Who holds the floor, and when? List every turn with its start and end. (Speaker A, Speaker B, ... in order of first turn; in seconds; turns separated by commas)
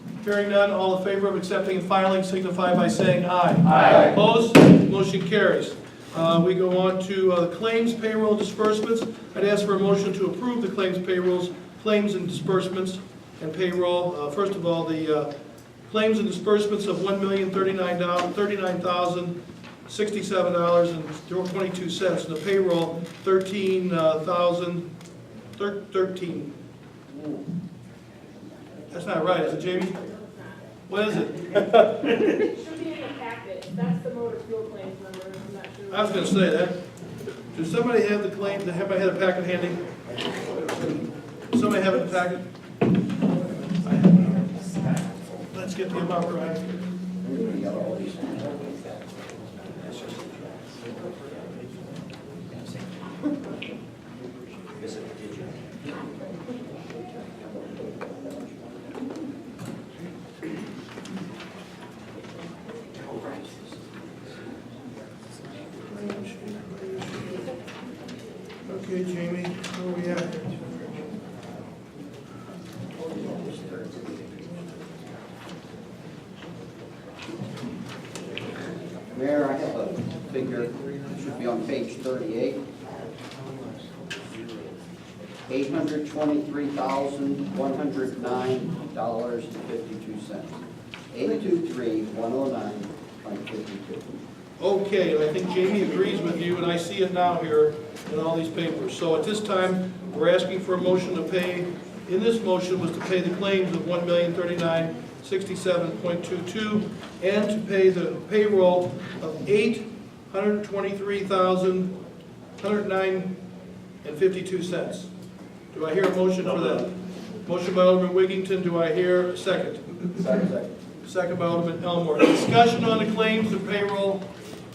Speaker A: 0.2-15.3, Speaker A: 15.9-19.3, Speaker A: 19.9-24.9, Speaker A: 25.6-26.5, Speaker B: 27.1-27.4, Speaker A: 28.9-30.0, Speaker C: 30.0-30.5, Speaker A: 30.9-32.1, Speaker C: 32.1-36.4, Speaker A: 35.9-36.7, Speaker A: 37.5-39.8, Speaker A: 41.5-42.4, Speaker A: 43.8-44.5, Speaker A: 45.5-46.7, Speaker B: 47.2-48.8, Speaker B: 49.7-50.3, Speaker A: 65.9-67.5, Speaker A: 68.7-70.7, Speaker B: 73.2-74.0, Speaker B: 79.1-82.6, Speaker B: 85.5-90.6, Speaker B: 91.1-94.1, Speaker A: 94.6-111.9, Speaker A: 112.6-113.3, Speaker A: 114.0-115.1, Speaker A: 115.7-116.9, Speaker A: 117.4-120.1, Speaker B: 120.3-120.7, Speaker A: 121.0-124.2